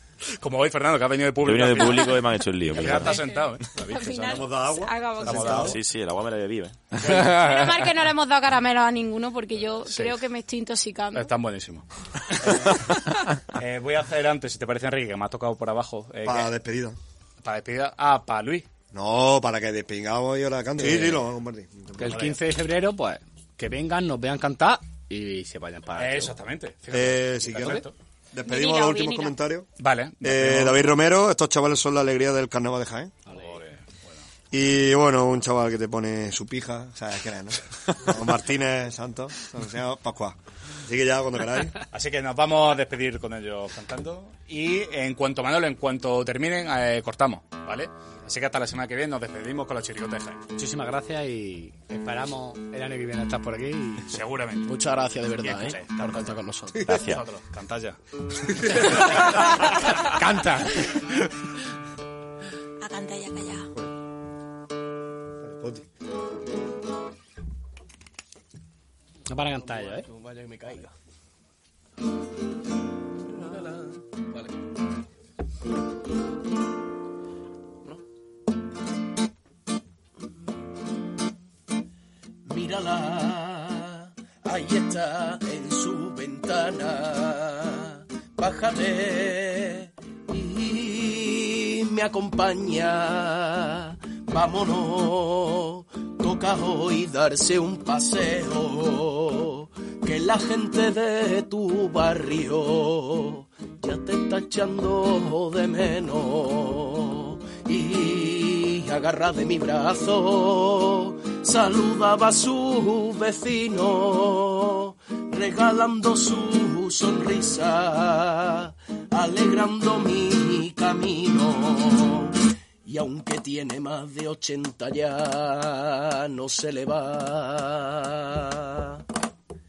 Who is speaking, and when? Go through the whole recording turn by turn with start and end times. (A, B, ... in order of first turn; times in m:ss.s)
0:00.4-0:04.5 A
0:01.4-0:03.2 B
0:01.8-0:02.2 C
0:03.0-0:05.8 C
0:04.1-0:05.7 D
0:05.2-0:05.7 A
0:05.6-0:06.8 B
0:07.0-0:07.9 A
0:07.2-0:11.3 C
0:09.9-0:10.2 A
0:11.1-0:11.8 A
0:12.4-0:12.8 A
0:13.5-0:16.5 A
0:16.2-0:17.0 D
0:17.4-0:18.7 A
0:18.9-0:22.2 D
0:22.0-0:26.3 E
0:22.1-0:22.4 A
0:26.0-0:27.9 A
0:26.9-0:29.7 D
0:28.4-0:29.4 C
0:29.8-0:30.9 A
0:30.2-0:33.1 D
0:33.3-0:33.6 E
0:33.3-0:34.2 A
0:34.5-0:41.8 D
0:41.9-0:50.4 A
0:50.6-0:54.2 E
0:54.1-0:56.3 A
0:54.6-0:57.0 F
0:56.9-0:58.0 A
0:58.5-0:59.2 A
1:00.1-1:00.7 E
1:02.8-1:03.7 C
1:05.4-1:05.9 D
1:09.3-1:10.0 E
1:09.6-1:10.9 F
1:13.3-1:14.5 F
1:22.5-2:09.0 F